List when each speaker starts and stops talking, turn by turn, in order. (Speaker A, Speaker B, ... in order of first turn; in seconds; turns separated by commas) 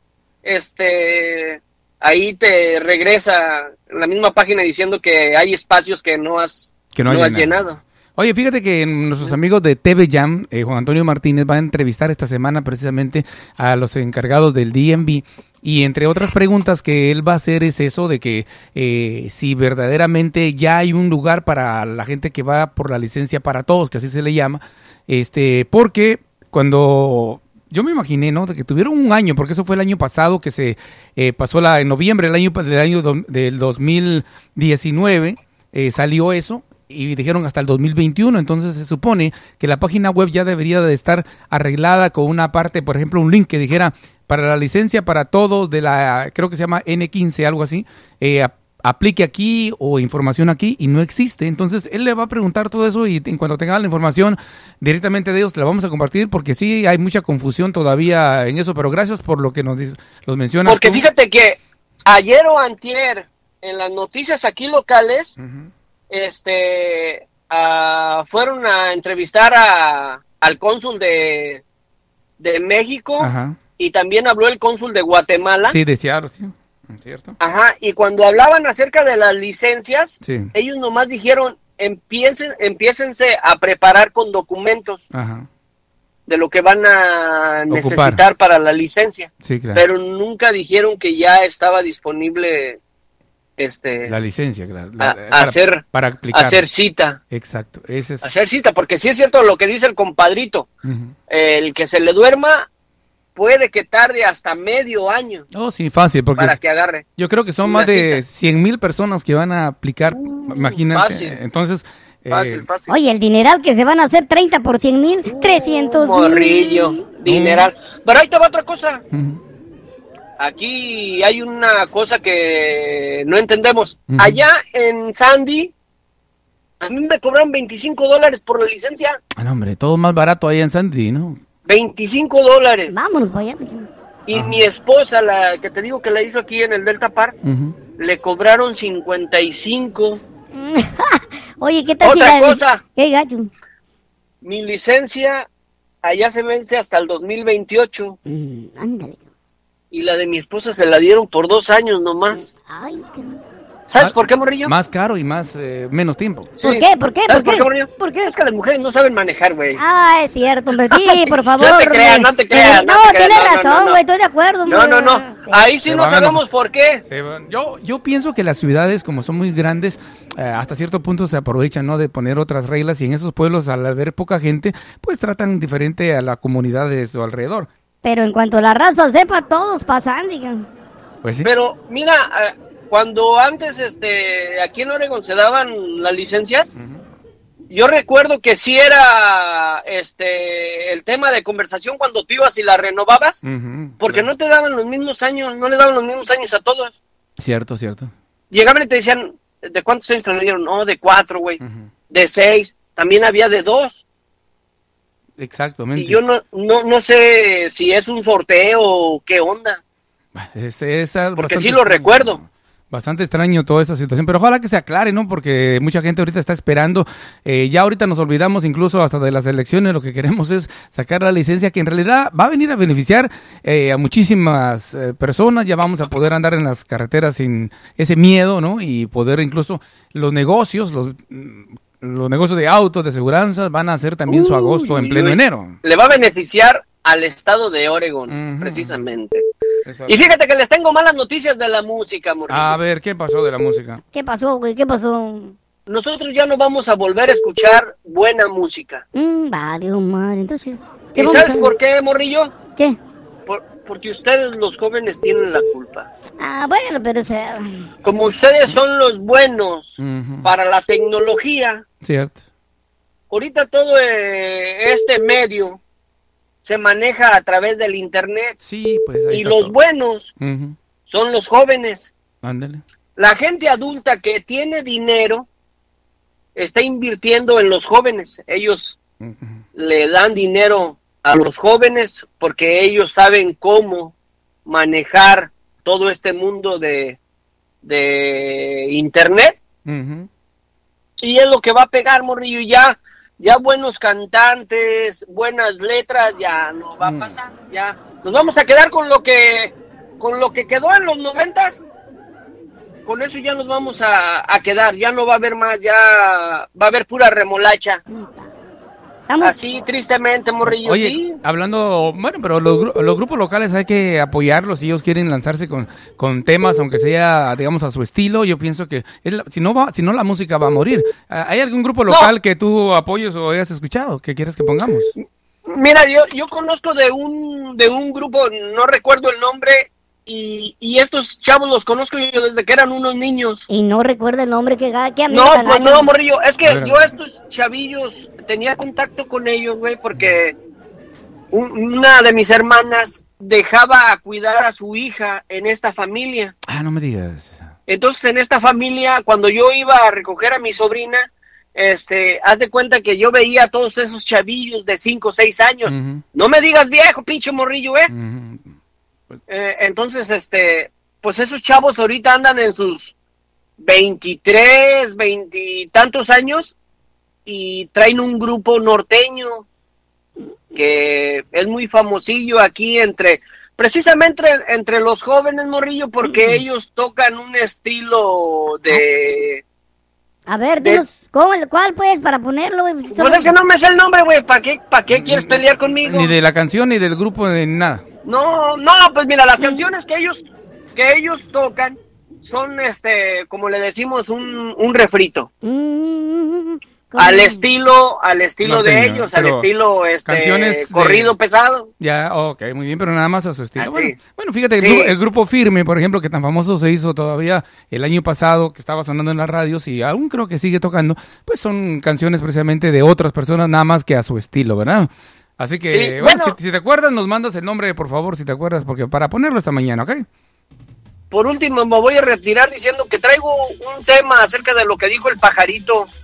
Speaker A: 0.4-7.8, Speaker B: 6.9-7.5, Speaker B: 8.2-61.0, Speaker A: 60.6-65.3, Speaker B: 65.4-65.7, Speaker A: 66.1-71.6, Speaker A: 72.4-75.8, Speaker B: 73.2-73.6, Speaker B: 75.7-77.3, Speaker A: 77.4-85.0, Speaker B: 80.2-80.5, Speaker B: 85.1-85.5, Speaker A: 86.3-92.8, Speaker B: 87.7-88.2, Speaker B: 89.4-89.8, Speaker A: 93.6-94.1, Speaker B: 94.0-96.6, Speaker A: 95.0-97.2, Speaker B: 97.3-98.3, Speaker A: 98.2-100.7, Speaker B: 100.8-101.1, Speaker A: 101.3-102.7, Speaker A: 103.3-105.4, Speaker B: 105.5-106.6, Speaker A: 106.4-107.0, Speaker B: 107.2-112.7, Speaker A: 107.6-108.2, Speaker A: 110.9-111.4, Speaker A: 112.3-112.9, Speaker C: 112.9-117.0, Speaker A: 115.3-119.0, Speaker B: 117.2-117.7, Speaker B: 119.1-119.4, Speaker A: 120.4-125.7, Speaker B: 124.1-124.4, Speaker A: 126.8-129.2, Speaker B: 129.4-131.4, Speaker A: 131.7-132.9, Speaker C: 132.9-133.9, Speaker A: 134.3-137.3, Speaker B: 134.3-134.6, Speaker B: 137.4-137.8, Speaker A: 138.0-140.2, Speaker C: 140.5-143.5, Speaker A: 142.0-142.8, Speaker A: 144.4-145.5, Speaker A: 146.0-148.2, Speaker C: 148.3-149.2, Speaker A: 149.9-152.5, Speaker C: 152.7-153.4, Speaker A: 153.9-154.7, Speaker B: 154.0-156.5, Speaker A: 156.6-159.8, Speaker C: 156.6-158.3, Speaker C: 159.8-165.6, Speaker A: 160.9-164.0, Speaker A: 164.7-167.0, Speaker B: 165.9-166.4, Speaker B: 167.0-177.7, Speaker C: 178.0-180.7, Speaker B: 181.2-181.5, Speaker A: 181.4-186.7, Speaker A: 187.7-193.4, Speaker B: 193.4-194.3, Speaker A: 194.0-197.0, Speaker B: 197.4-198.1, Speaker A: 198.5-204.0, Speaker B: 201.6-201.9, Speaker B: 205.4-206.2, Speaker A: 205.9-209.8, Speaker B: 210.3-235.8, Speaker A: 211.4-212.4, Speaker A: 234.3-239.4, Speaker B: 238.3-239.0, Speaker B: 239.8-240.2, Speaker A: 240.1-242.7, Speaker B: 242.5-244.0, Speaker C: 244.1-245.5, Speaker A: 245.9-249.0, Speaker C: 249.1-251.7, Speaker A: 251.1-252.5, Speaker A: 253.5-256.1, Speaker C: 256.4-257.9, Speaker A: 258.0-261.8, Speaker B: 260.0-260.5, Speaker B: 262.0-262.4, Speaker A: 263.3-265.8, Speaker A: 266.6-268.6, Speaker B: 268.6-269.8, Speaker A: 269.3-270.3, Speaker B: 270.4-270.8, Speaker A: 271.1-272.1, Speaker B: 272.4-272.8, Speaker A: 273.2-275.5, Speaker A: 276.6-279.0, Speaker B: 279.2-279.6, Speaker A: 279.8-284.1, Speaker A: 284.6-287.2, Speaker A: 287.8-289.6, Speaker B: 289.9-290.3, Speaker A: 291.2-301.8, Speaker B: 297.0-297.3, Speaker A: 303.1-308.0, Speaker C: 308.1-308.4, Speaker C: 309.3-309.6, Speaker A: 309.4-311.4, Speaker B: 310.6-325.1, Speaker A: 325.7-333.6, Speaker C: 333.7-336.1, Speaker A: 335.3-340.6, Speaker B: 336.6-337.1, Speaker A: 341.5-346.5, Speaker B: 346.7-347.7, Speaker A: 347.9-358.1, Speaker B: 355.9-356.2, Speaker B: 358.1-358.7, Speaker A: 359.5-363.1, Speaker A: 363.8-366.7, Speaker A: 367.4-369.6, Speaker A: 370.7-379.6, Speaker C: 380.5-383.5, Speaker A: 380.8-381.0, Speaker A: 383.1-386.3, Speaker B: 385.1-388.0, Speaker A: 388.2-390.4, Speaker A: 390.9-395.5, Speaker C: 395.6-397.7, Speaker A: 397.2-401.9, Speaker B: 398.6-399.7, Speaker B: 400.2-401.3, Speaker B: 402.0-420.2, Speaker A: 403.8-404.2, Speaker A: 404.8-405.1, Speaker A: 415.9-416.6, Speaker A: 421.3-426.1